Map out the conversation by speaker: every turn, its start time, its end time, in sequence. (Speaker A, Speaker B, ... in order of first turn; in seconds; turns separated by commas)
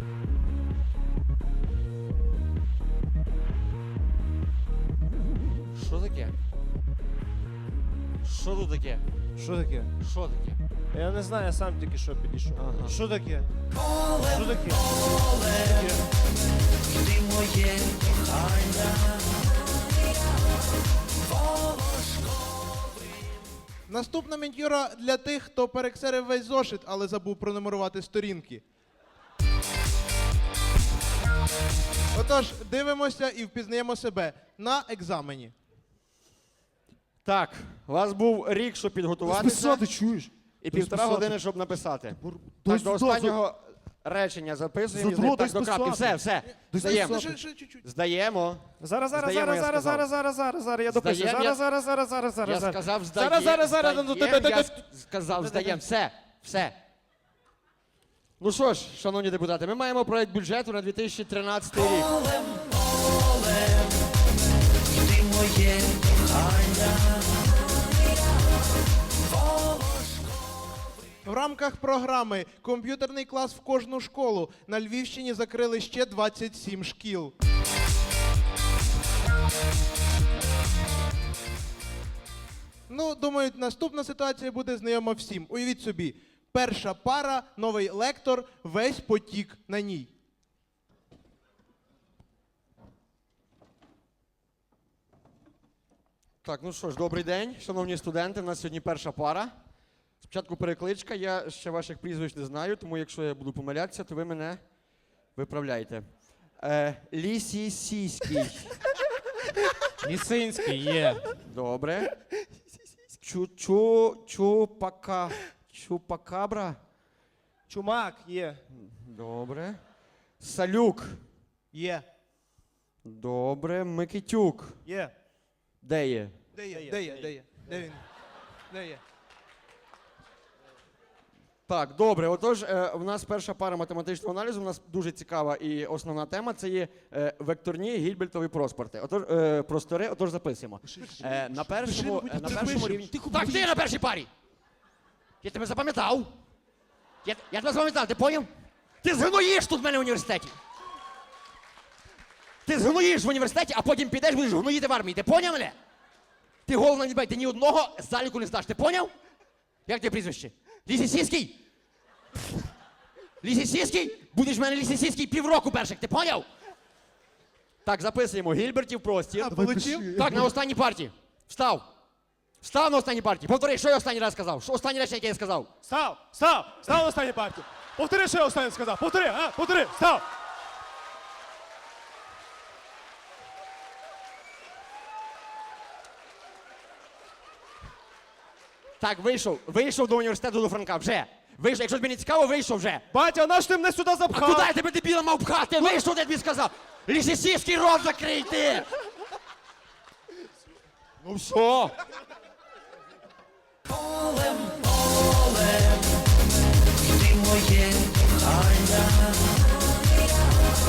Speaker A: 5.7-6.3, Speaker A: 8.2-9.0, Speaker B: 9.4-9.9, Speaker A: 10.0-10.6, Speaker B: 10.9-13.5, Speaker A: 12.6-12.9, Speaker B: 14.2-16.0, Speaker C: 23.9-28.6, Speaker C: 32.1-35.5, Speaker A: 37.2-39.8, Speaker B: 39.2-41.4, Speaker A: 40.6-47.2, Speaker B: 42.2-43.4, Speaker B: 44.9-47.4, Speaker C: 46.7-47.8, Speaker A: 47.8-50.1, Speaker B: 48.8-54.7, Speaker A: 50.9-51.6, Speaker A: 52.4-56.8, Speaker B: 55.4-55.8, Speaker A: 58.4-62.1, Speaker C: 71.2-77.3, Speaker C: 82.9-90.1, Speaker A: 96.4-99.5, Speaker A: 100.2-104.6, Speaker A: 105.3-106.0, Speaker A: 106.6-108.8, Speaker D: 110.0-111.3, Speaker A: 111.5-112.1, Speaker A: 113.2-116.8, Speaker B: 117.7-118.6, Speaker A: 118.7-119.8, Speaker A: 120.4-121.2, Speaker C: 121.7-122.0, Speaker A: 123.0-124.8, Speaker B: 124.8-125.1, Speaker A: 125.8-126.3, Speaker C: 126.5-128.0, Speaker B: 126.7-127.8, Speaker C: 128.7-129.0, Speaker A: 131.7-144.3, Speaker B: 140.9-141.4, Speaker C: 140.9-143.4, Speaker D: 142.5-143.7, Speaker A: 145.4-146.3, Speaker A: 147.2-148.5, Speaker A: 149.0-150.5, Speaker A: 152.7-155.8, Speaker A: 156.7-159.1, Speaker A: 159.9-161.6, Speaker A: 163.4-166.5, Speaker A: 167.8-169.5, Speaker C: 169.4-170.3, Speaker B: 169.5-170.5, Speaker A: 170.2-171.8, Speaker A: 172.6-175.7, Speaker B: 175.8-180.2, Speaker A: 189.0-193.0, Speaker B: 193.1-194.7, Speaker A: 194.3-198.9, Speaker A: 201.2-201.9